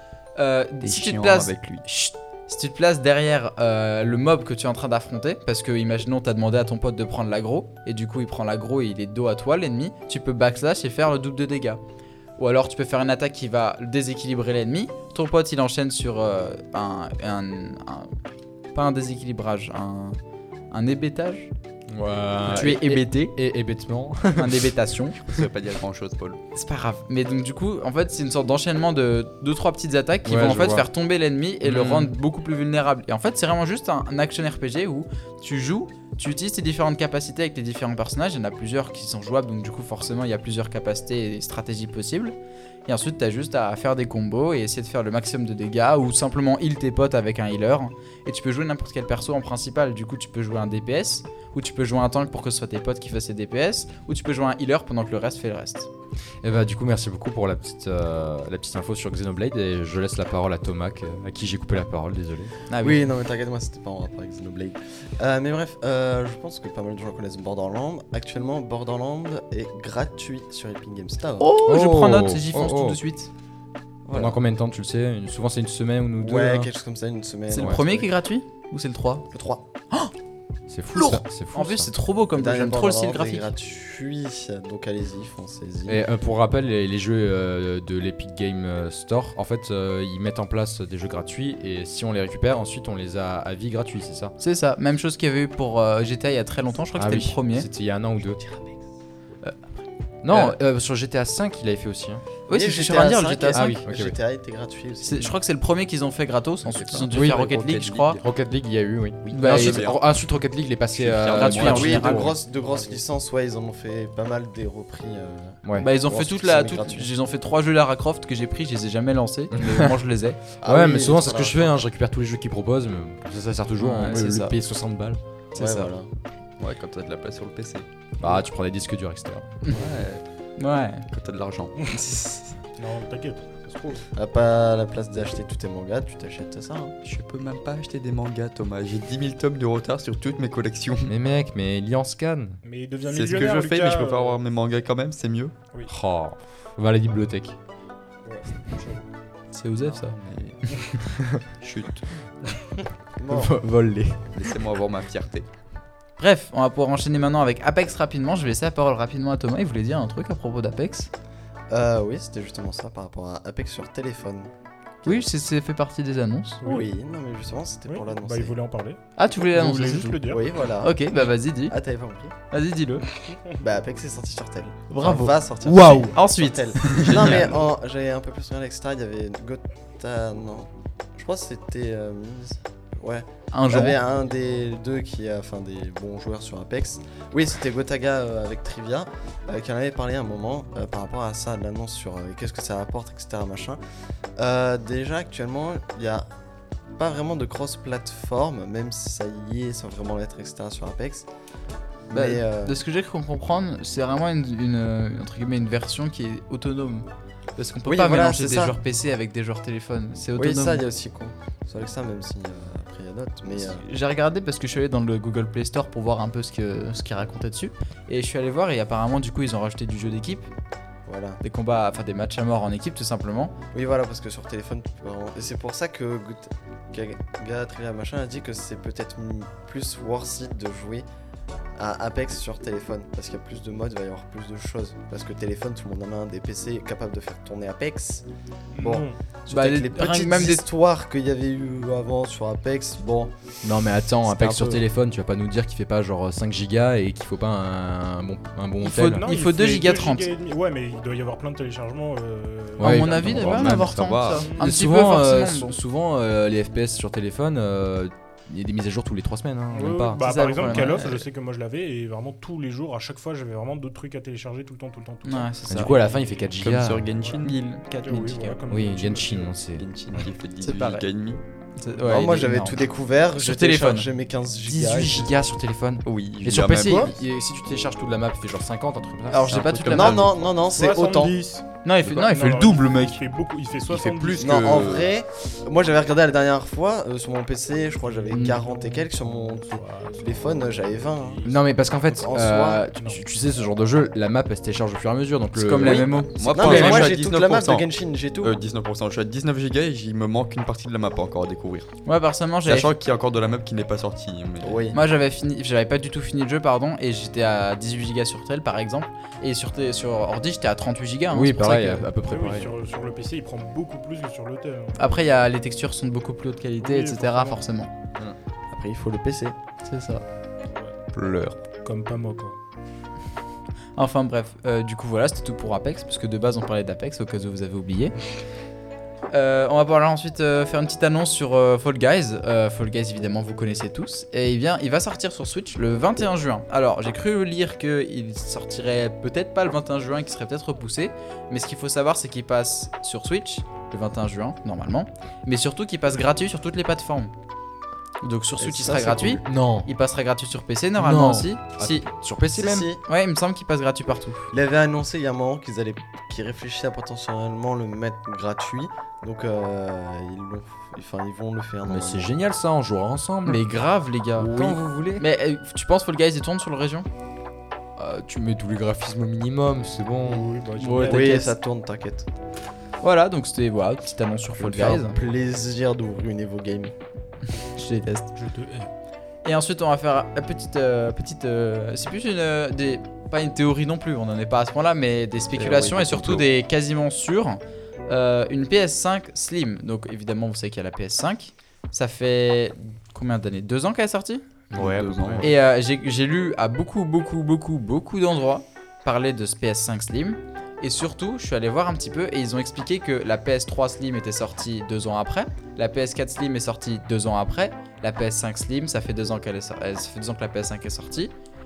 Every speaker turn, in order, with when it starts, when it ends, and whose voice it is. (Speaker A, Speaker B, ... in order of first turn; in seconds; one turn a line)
Speaker A: 0.3-11.8
Speaker B: 0.8-1.8
Speaker A: 12.4-18.1
Speaker A: 18.7-20.2
Speaker A: 20.7-21.5
Speaker C: 21.9-24.7
Speaker A: 22.5-23.3
Speaker A: 24.4-25.2
Speaker B: 25.2-26.4
Speaker A: 26.5-42.3
Speaker C: 30.2-30.9
Speaker C: 31.6-32.1
Speaker A: 42.9-55.9
Speaker C: 56.4-62.5
Speaker A: 62.7-63.0
Speaker D: 62.8-71.5
Speaker A: 71.4-73.3
Speaker C: 71.6-73.0
Speaker D: 74.0-74.4
Speaker C: 74.1-76.7
Speaker D: 76.2-78.1
Speaker A: 77.5-79.3
Speaker D: 79.3-79.6
Speaker C: 80.7-81.9
Speaker A: 80.9-83.5
Speaker D: 82.3-86.0
Speaker C: 85.9-94.3
Speaker A: 94.4-97.7
Speaker C: 97.0-98.4
Speaker C: 100.2-102.2
Speaker A: 100.3-100.6
Speaker A: 102.5-103.8
Speaker D: 102.5-105.4
Speaker C: 103.5-104.1
Speaker A: 105.0-108.2
Speaker B: 106.7-108.2
Speaker C: 107.1-107.5
Speaker C: 108.2-112.3
Speaker A: 109.3-109.8
Speaker B: 109.5-110.1
Speaker B: 110.9-112.0
Speaker A: 111.3-112.4
Speaker D: 111.7-117.1
Speaker A: 115.8-120.4
Speaker C: 119.5-119.9
Speaker D: 120.6-121.8
Speaker C: 120.6-125.2
Speaker A: 123.8-124.5
Speaker A: 125.5-125.9
Speaker D: 125.5-126.1
Speaker B: 126.6-127.9
Speaker C: 128.2-129.5
Speaker B: 129.7-130.2
Speaker A: 130.6-131.1
Speaker B: 131.1-131.9
Speaker A: 131.9-132.5
Speaker E: 132.8-134.1
Speaker D: 134.1-136.9
Speaker B: 137.0-141.1
Speaker C: 141.1-142.6
Speaker E: 142.6-144.4
Speaker B: 143.1-145.5
Speaker C: 145.9-147.6
Speaker E: 148.2-149.0
Speaker A: 149.5-150.2
Speaker B: 149.8-152.1
Speaker D: 153.2-153.5
Speaker C: 153.3-154.2
Speaker B: 154.3-155.5
Speaker A: 156.2-161.1
Speaker D: 161.7-164.5
Speaker A: 165.0-166.6
Speaker E: 166.6-166.9
Speaker D: 166.6-168.5
Speaker E: 167.9-170.4
Speaker A: 169.2-171.8
Speaker D: 170.3-172.3
Speaker A: 172.5-173.2
Speaker D: 173.6-193.8
Speaker A: 174.9-177.5
Speaker B: 176.9-177.4
Speaker A: 183.5-184.0
Speaker D: 194.4-196.2
Speaker D: 197.0-201.3
Speaker D: 202.1-202.8
Speaker A: 202.1-210.8
Speaker D: 207.8-208.8
Speaker D: 210.4-213.8
Speaker A: 213.6-220.5
Speaker D: 221.1-221.4
Speaker A: 221.4-223.5
Speaker D: 223.7-231.1
Speaker D: 231.8-238.2
Speaker E: 238.7-239.2
Speaker D: 238.8-243.3
Speaker A: 239.5-240.6
Speaker C: 243.6-249.2
Speaker D: 244.3-244.8
Speaker A: 248.8-250.3
Speaker E: 249.0-253.6
Speaker C: 252.8-253.9
Speaker A: 252.8-255.8
Speaker B: 253.2-254.5
Speaker C: 254.6-260.9
Speaker E: 259.7-266.3
Speaker A: 260.2-261.2
Speaker A: 265.2-265.9
Speaker C: 265.7-267.1
Speaker B: 266.4-267.6
Speaker A: 267.4-268.6
Speaker E: 268.0-269.5
Speaker C: 268.7-269.8
Speaker B: 269.7-271.4
Speaker A: 270.6-271.0
Speaker A: 271.8-272.8
Speaker D: 272.0-275.3
Speaker A: 273.3-274.1
Speaker C: 274.6-280.2
Speaker B: 276.0-277.1
Speaker D: 276.8-277.1
Speaker A: 279.3-280.3
Speaker B: 279.5-280.3
Speaker D: 279.9-281.4
Speaker E: 280.6-284.9
Speaker A: 281.8-283.2
Speaker B: 283.9-285.1
Speaker D: 284.4-291.4
Speaker E: 288.3-289.0
Speaker E: 289.7-291.6
Speaker C: 291.4-297.1
Speaker D: 292.1-292.8
Speaker E: 292.9-293.2
Speaker A: 295.5-297.1
Speaker B: 296.3-297.9
Speaker D: 296.4-298.6
Speaker B: 298.4-301.9
Speaker A: 302.0-302.9
Speaker B: 302.6-304.8
Speaker D: 304.6-305.0
Speaker A: 304.9-312.1
Speaker C: 311.3-312.7
Speaker E: 312.2-315.0
Speaker A: 315.0-317.9
Speaker E: 316.8-317.6
Speaker D: 318.7-319.6
Speaker A: 319.8-320.2
Speaker B: 321.1-321.6
Speaker E: 321.8-322.6
Speaker A: 323.9-328.2
Speaker A: 329.3-347.3
Speaker A: 348.2-352.1
Speaker D: 348.6-349.4
Speaker C: 349.4-349.9
Speaker C: 351.0-352.9
Speaker D: 352.5-353.0
Speaker A: 353.0-354.5
Speaker D: 354.5-362.3
Speaker C: 361.9-363.6
Speaker A: 363.4-367.1
Speaker C: 364.4-365.2
Speaker C: 368.0-371.1
Speaker E: 370.2-371.3
Speaker A: 370.9-371.5
Speaker D: 371.0-372.3
Speaker A: 373.0-375.2
Speaker D: 374.6-376.9
Speaker A: 377.7-378.3
Speaker E: 378.3-378.9
Speaker A: 379.4-394.4
Speaker D: 385.5-386.4
Speaker C: 394.7-395.5
Speaker B: 394.8-395.5
Speaker A: 395.4-411.3